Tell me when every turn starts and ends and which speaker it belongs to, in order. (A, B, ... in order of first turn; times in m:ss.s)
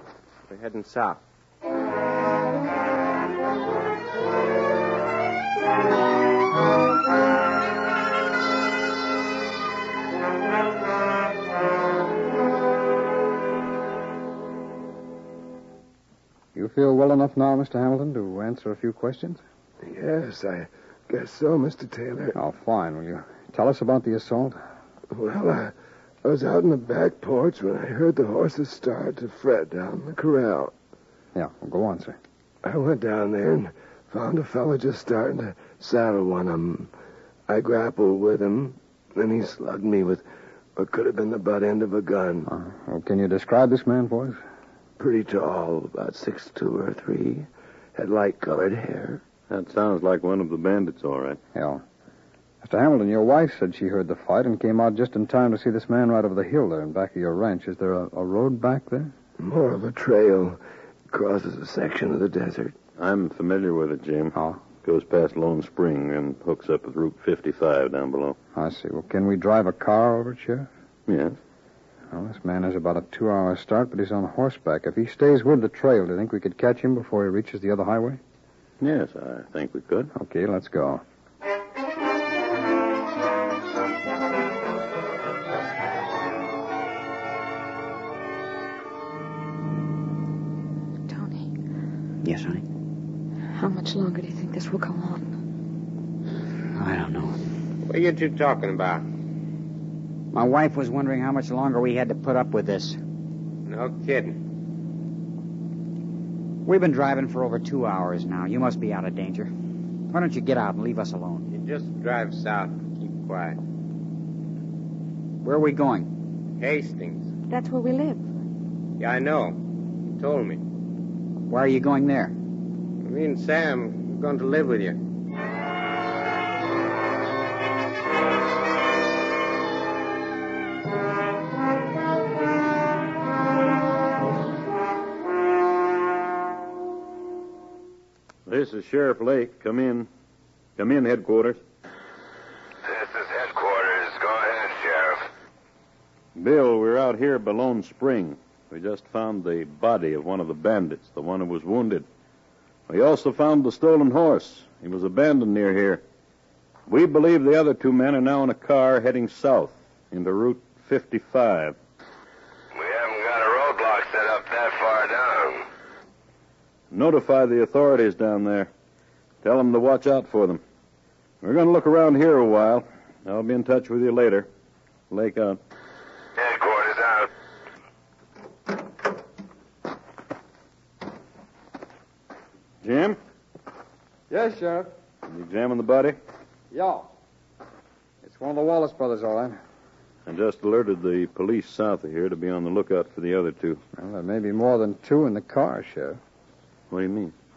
0:00.5-0:01.2 A
0:16.5-0:19.4 B
0:19.8-0:22.4 C
0:22.3-0:24.6 B
0:25.1-0:30.7 C
0:31.3-0:32.2 B
0:32.6-0:36.9 C
0:37.5-0:40.2 C
0:40.8-0:42.5 C
0:42.5-0:44.4 B
0:45.0-0:49.2 C
0:49.5-0:51.4 D
0:51.5-0:51.8 B
0:52.6-0:59.1 B
0:59.4-1:00.6 C
1:01.1-1:02.7 C
1:03.0-1:08.4 D
1:04.3-1:04.6 B
1:08.5-1:10.7 B
1:11.1-1:11.4 D
1:12.1-1:18.2 B
1:18.8-1:20.1 D
1:20.1-1:21.0 B
1:31.1-1:31.5 E
1:32.2-1:32.6 F
1:33.5-1:35.3 E
1:36.7-1:37.4 F
1:37.8-1:39.0 A
1:40.3-1:43.0 F
1:43.7-1:44.4 A
1:46.6-1:49.5 F
1:50.1-1:51.5 F
1:51.5-1:53.6 A
1:55.4-1:56.1 F
1:56.6-1:57.3 A
1:57.5-1:58.3 E
1:59.0-2:00.6 A
2:01.5-2:02.3 F
2:03.0-2:05.0 A
2:18.5-2:20.1 D
2:20.8-2:21.6 D
2:22.8-2:25.3 G
2:26.3-2:32.0 D
2:32.9-2:36.0 D
2:36.9-2:41.8 D
2:42.7-2:45.7 G
2:46.9-2:48.7 D
2:49.4-2:50.6 D
2:51.4-2:54.5 D
2:55.1-2:55.6 D
2:56.4-2:57.3 G
3:02.8-3:03.2 D
3:04.3-3:04.9 B
3:05.2-3:06.2 D
3:06.7-3:07.1 B
3:08.2-3:09.6 B
3:10.2-3:13.8 D
3:14.0-3:16.2 B
3:16.9-3:17.3 D